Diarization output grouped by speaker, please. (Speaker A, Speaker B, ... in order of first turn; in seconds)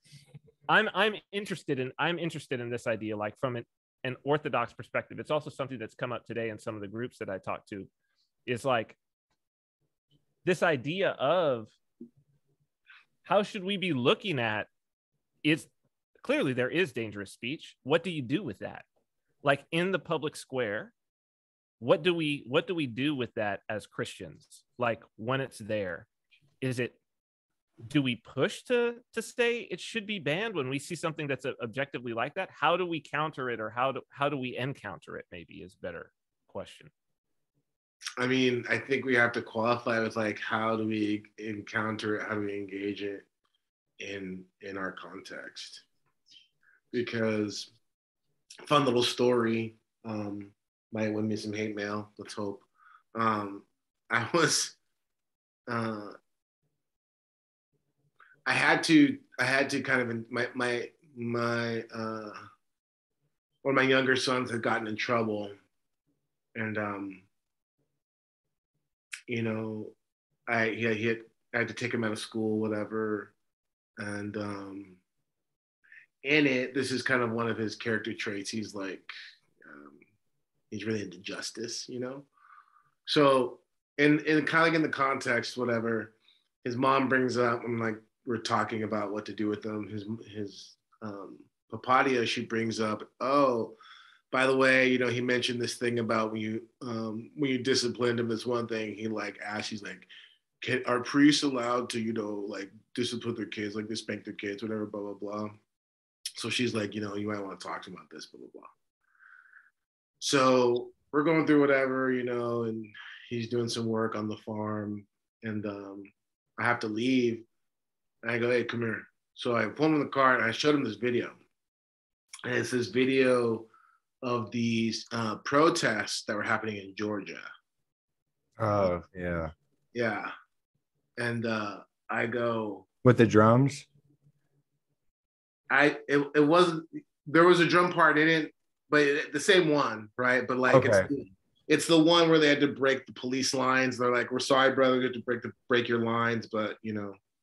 Speaker A: 0.7-7.9, 8.5-9.0, 10.4-11.7, 13.2-14.7, 15.4-15.7, 16.2-18.9, 19.4-20.9, 21.8-26.1, 26.6-27.0, 27.9-36.9
Speaker B: 38.2-43.2, 44.0-45.8, 46.9-47.7, 48.7-54.8, 55.7-56.2, 58.5-62.5, 63.6-65.6, 66.5-67.3, 69.3-70.0, 70.5-73.3, 74.0-75.0, 76.2-80.0, 80.7-82.3, 83.1-93.8, 94.3-100.1, 100.6-105.6, 106.4-108.7, 110.2-117.5, 118.2-121.4, 122.5-123.7, 124.2-127.5, 129.9-130.3, 131.2-132.9, 135.7-147.2
Speaker C: 128.6-129.5, 133.0-133.9, 140.7-141.1